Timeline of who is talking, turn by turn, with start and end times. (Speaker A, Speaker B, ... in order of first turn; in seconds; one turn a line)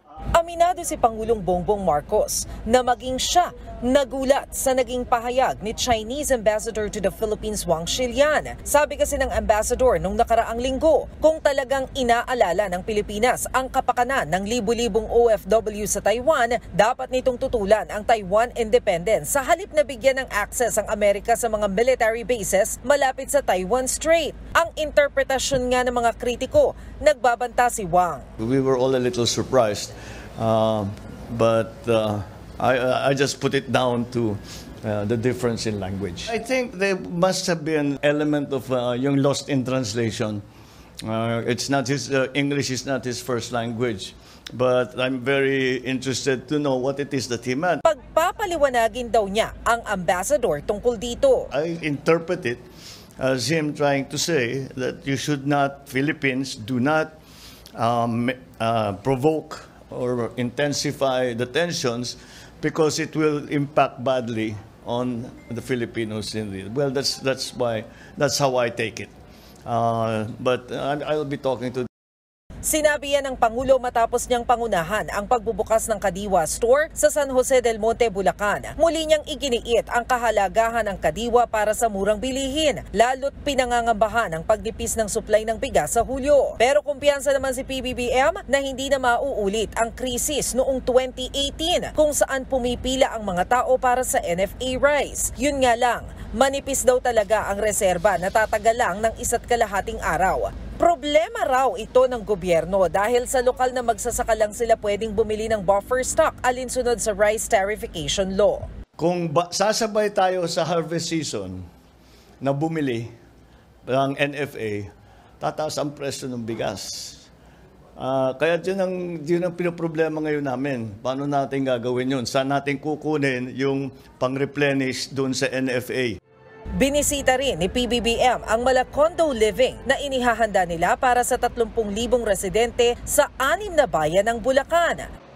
Speaker A: 0.3-28.2
Speaker B: 28.4-40.4
Speaker B: 41.1-47.8
Speaker A: 47.8-51.5
Speaker B: 51.5-52.6
Speaker B: 53.2-57.1
Speaker B: 57.8-69.1
Speaker B: 69.7-71.9
Speaker A: 72.6-108.7
Speaker B: 109.0-111.6
Speaker B: 112.4-113.1
Speaker B: 113.8-117.2
Speaker B: 118.0-126.2
Speaker A: 126.8-135.1